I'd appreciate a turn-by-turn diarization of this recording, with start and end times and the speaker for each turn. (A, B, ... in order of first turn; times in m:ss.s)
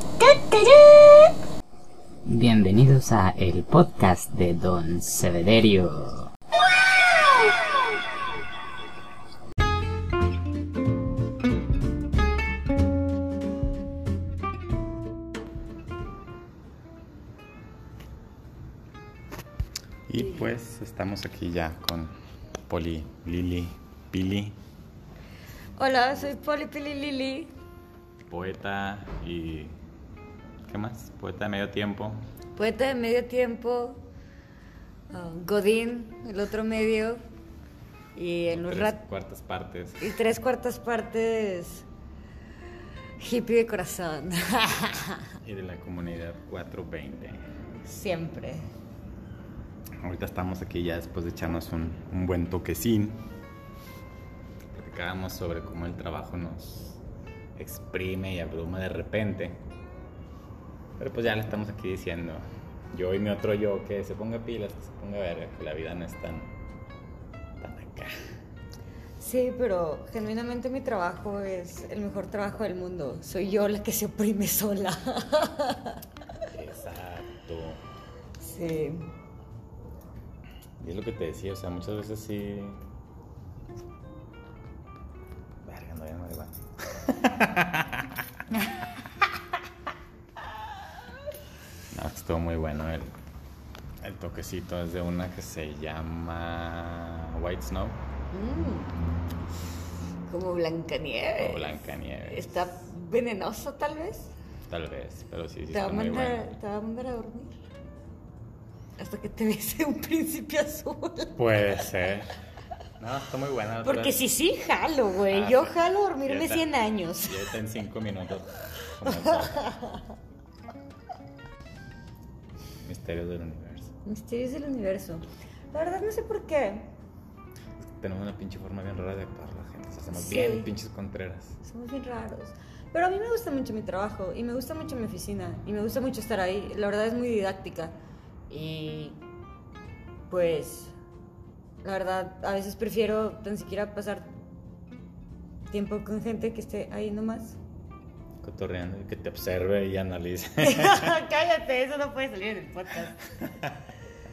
0:00.2-0:01.1 A
0:02.3-0:06.3 B
0:20.1-0:22.1 C
0:22.7-0:24.6 C
0:25.8-0:27.5 A
0:28.3-0:29.8 C
0:30.7-0:32.3 C
0:32.6-0:34.0 A
0:35.1-0:37.2 A
0:38.2-0:39.0 A
0:38.5-0:40.2 C
0:40.0-0:41.9 A
0:43.2-0:45.4 A
0:45.4-0:47.4 C
0:47.8-0:48.7 A
0:50.0-0:53.3 C
0:54.7-0:57.0 C
0:57.6-0:59.6 C
1:01.0-1:06.6 C
1:07.6-1:08.2 C
1:09.2-1:16.0 A
1:16.5-1:17.8 C
1:18.4-1:19.1 A
1:20.8-1:22.8 C
1:25.6-1:28.2 C
1:31.9-1:33.2 C
1:34.0-1:38.0 C
1:38.3-1:39.0 A
1:40.3-1:44.3 A
1:41.4-1:42.5 C
1:44.7-1:46.5 C
1:45.7-1:47.6 A
1:49.0-1:51.4 A
1:51.4-1:52.3 C
1:53.0-1:54.2 C
1:53.8-1:57.6 A
1:55.3-1:56.6 C
1:57.2-1:59.7 C
1:59.1-2:00.0 A
2:02.8-2:04.0 C
2:04.0-2:07.0 A
2:07.8-2:11.6 C
2:10.1-2:10.7 A
2:11.6-2:18.0 A
2:18.5-2:19.2 A
2:20.3-2:21.0 A
2:21.8-2:24.4 A
2:25.7-2:27.6 A
2:28.4-2:31.2 C
2:30.6-2:33.3 A